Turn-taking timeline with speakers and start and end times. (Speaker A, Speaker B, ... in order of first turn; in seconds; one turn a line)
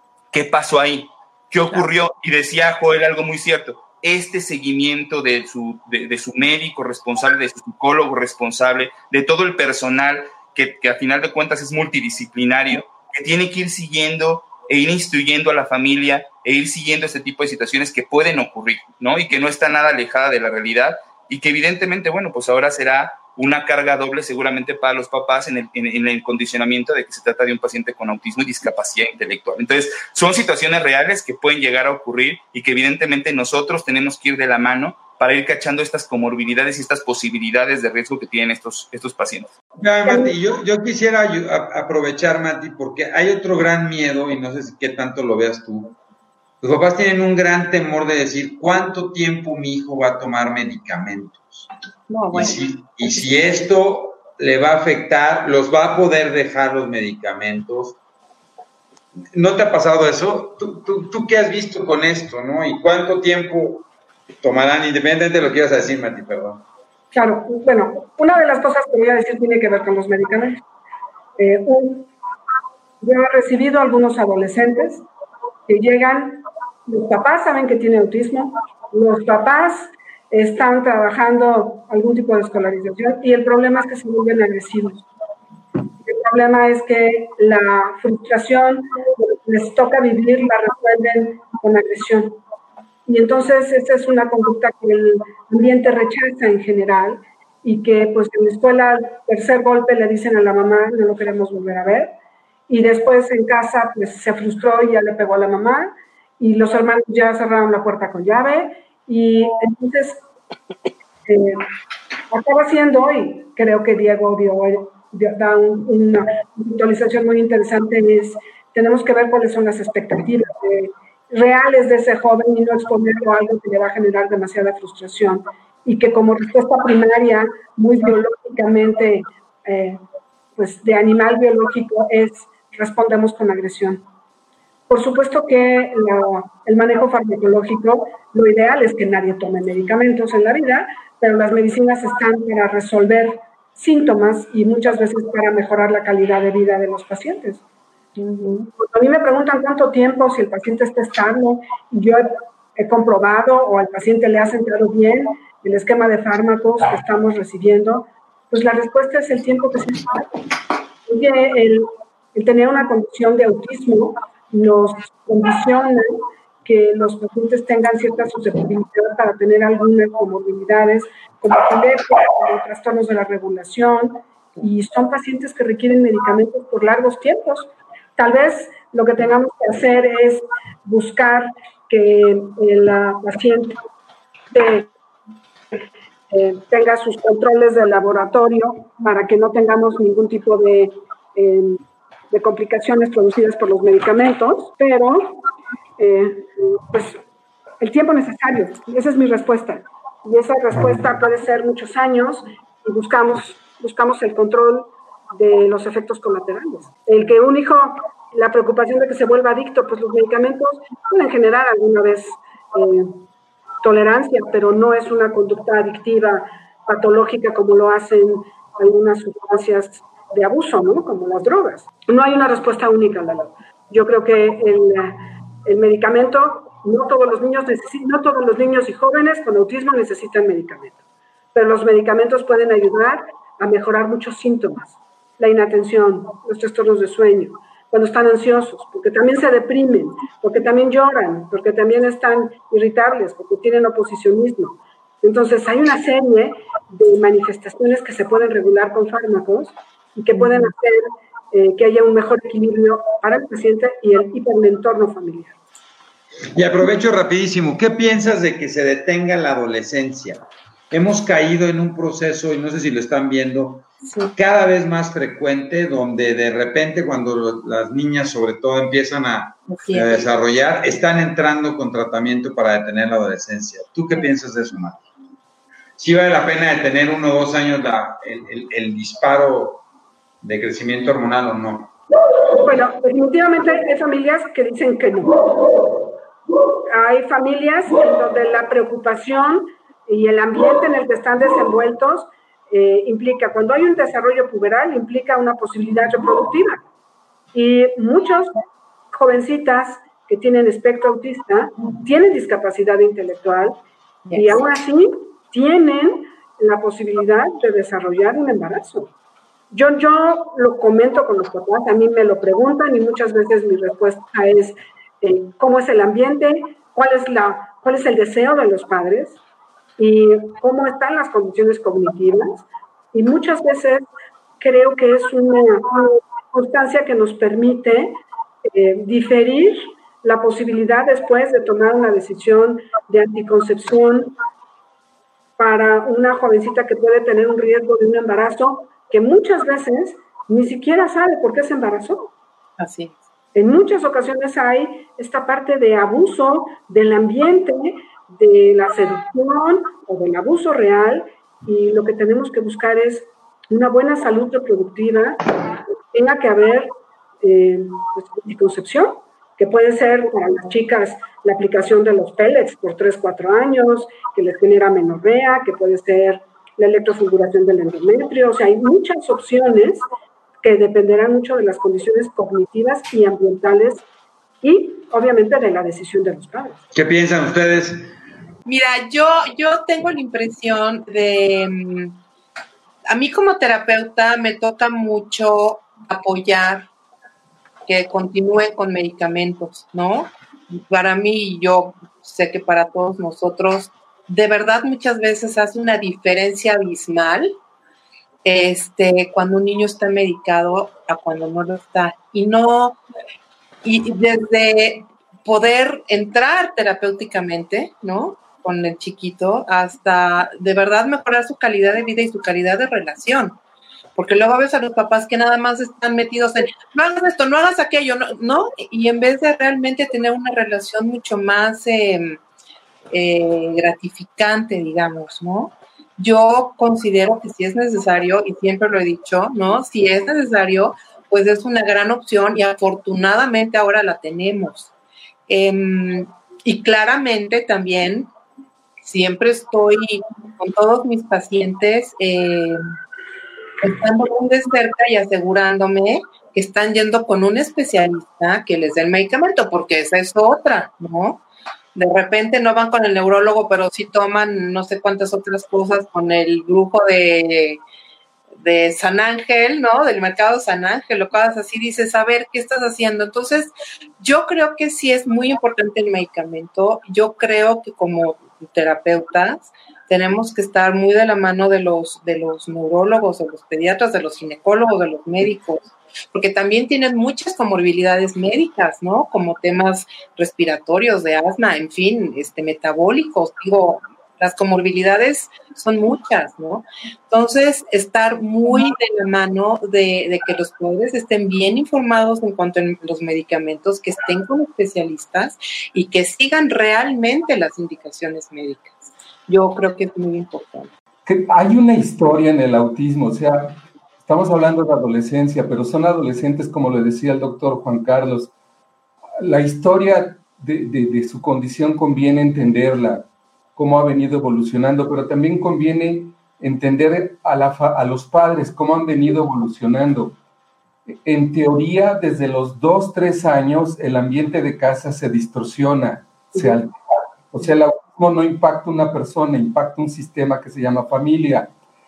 Speaker A: 0.3-39.5
Speaker B: 39.8-46.0
Speaker C: 40.1-40.3
Speaker B: 46.6-51.7
Speaker D: 52.1-53.4
Speaker B: 52.3-58.0
Speaker B: 59.3-63.9
Speaker B: 64.4-66.6
Speaker C: 67.1-70.6
Speaker C: 71.4-72.1
Speaker C: 73.0-75.1
Speaker C: 75.7-85.0
Speaker C: 86.0-92.4
Speaker C: 93.1-102.2
Speaker C: 102.7-110.2
Speaker C: 111.3-111.6
Speaker C: 112.3-130.0
Speaker C: 130.6-134.1
Speaker C: 134.9-147.6
Speaker D: 148.2-148.7
Speaker C: 148.8-160.3
Speaker C: 161.1-183.8
Speaker C: 184.5-184.9
Speaker C: 186.3-191.8
Speaker C: 192.3-195.4
Speaker C: 196.0-197.2
Speaker C: 197.8-213.1
Speaker C: 213.8-231.0
Speaker C: 231.5-255.6
Speaker D: 250.3-250.7
Speaker B: 256.5-263.9
Speaker D: 264.1-264.4
Speaker B: 264.4-275.0
Speaker D: 269.7-270.3
Speaker B: 276.0-279.8
Speaker B: 280.4-281.9
Speaker C: 282.5-286.0
Speaker C: 286.9-296.8
Speaker C: 297.5-298.5
Speaker C: 299.1-303.8
Speaker D: 304.3-304.6
Speaker C: 304.4-309.1
Speaker C: 309.7-319.4
Speaker C: 320.0-324.0
Speaker C: 324.6-334.4
Speaker C: 335.6-342.3
Speaker D: 342.8-343.2
Speaker C: 343.6-355.5
Speaker C: 356.1-370.0
Speaker C: 370.6-374.1
Speaker C: 374.6-376.8
Speaker B: 376.9-378.1
Speaker D: 378.7-382.2
Speaker D: 383.1-386.9
Speaker D: 387.9-397.6
Speaker D: 398.4-403.0
Speaker D: 403.8-413.6
Speaker D: 414.2-422.4
Speaker D: 423.1-434.9
Speaker D: 435.5-438.3
Speaker D: 439.0-442.8
Speaker D: 443.8-451.4
Speaker D: 451.9-457.8
Speaker D: 458.6-500.9
Speaker E: 501.3-508.5
Speaker E: 509.4-520.4
Speaker E: 521.1-531.7